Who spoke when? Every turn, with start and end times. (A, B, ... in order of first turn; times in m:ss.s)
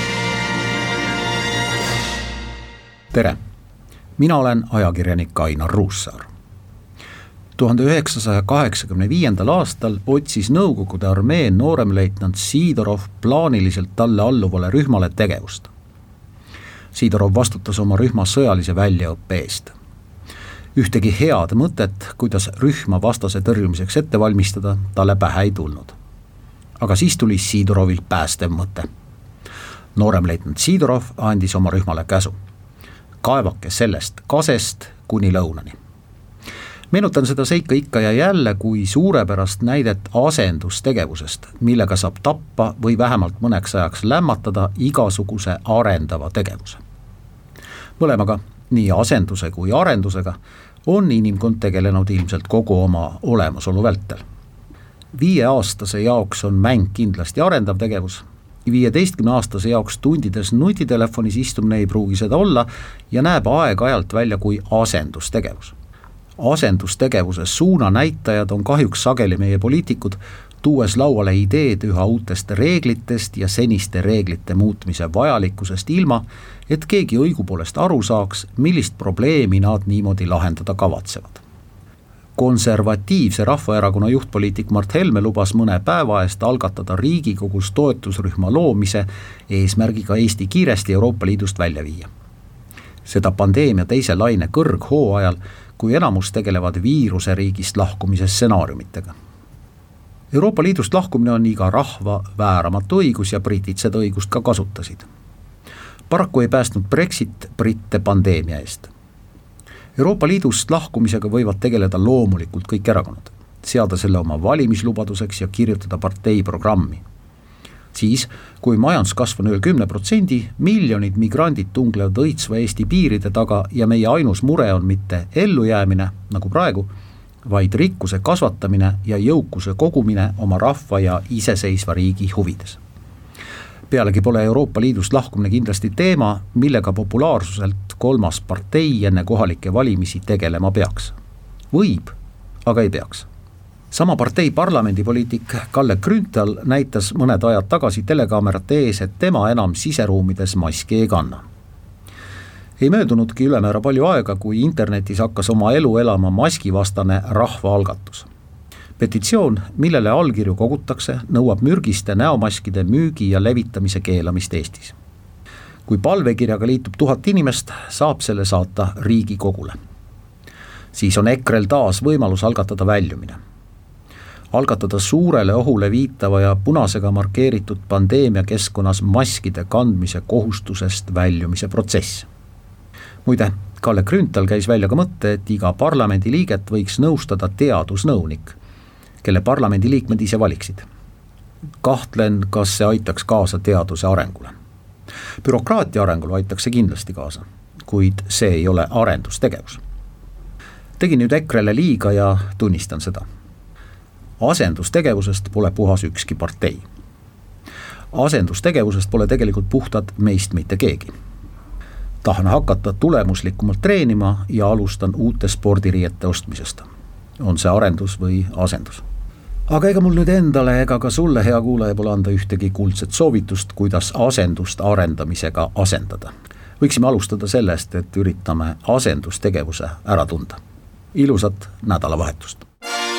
0:03.1-0:03.4 A
0:04.2-0:06.3 A
0:07.6-0:15.7 A
0:16.9-0:19.7 A
0:20.8-0:26.0 A
0:26.8-0:28.9 A
0:30.0-0:32.4 A
0:33.2-0:35.8 A
0:36.9-0:46.8 A
0:48.0-0:54.2 A
0:55.1-1:05.8 A
1:06.4-1:21.4 A
1:22.4-1:32.1 A
1:33.0-1:39.1 A
1:40.3-1:45.1 A
1:46.1-1:48.9 A
1:50.0-1:57.0 A
1:57.9-2:06.9 A
2:07.5-2:12.8 A
2:13.9-2:21.2 A
2:21.7-2:22.2 A
2:22.7-2:23.3 A
2:23.9-2:31.4 A
2:32.8-2:38.3 A
2:39.0-2:45.0 A
2:45.9-2:49.8 A
2:50.9-2:53.4 A
2:54.5-3:02.3 A
3:03.2-3:08.6 A
3:09.2-3:10.9 A
3:11.8-3:14.5 A
3:15.4-3:19.8 A
3:21.0-3:23.2 A
3:24.4-3:26.8 A
3:28.1-3:31.1 A
3:32.2-3:36.9 A
3:37.4-3:39.0 A
3:39.7-3:50.6 A
3:51.1-3:52.6 A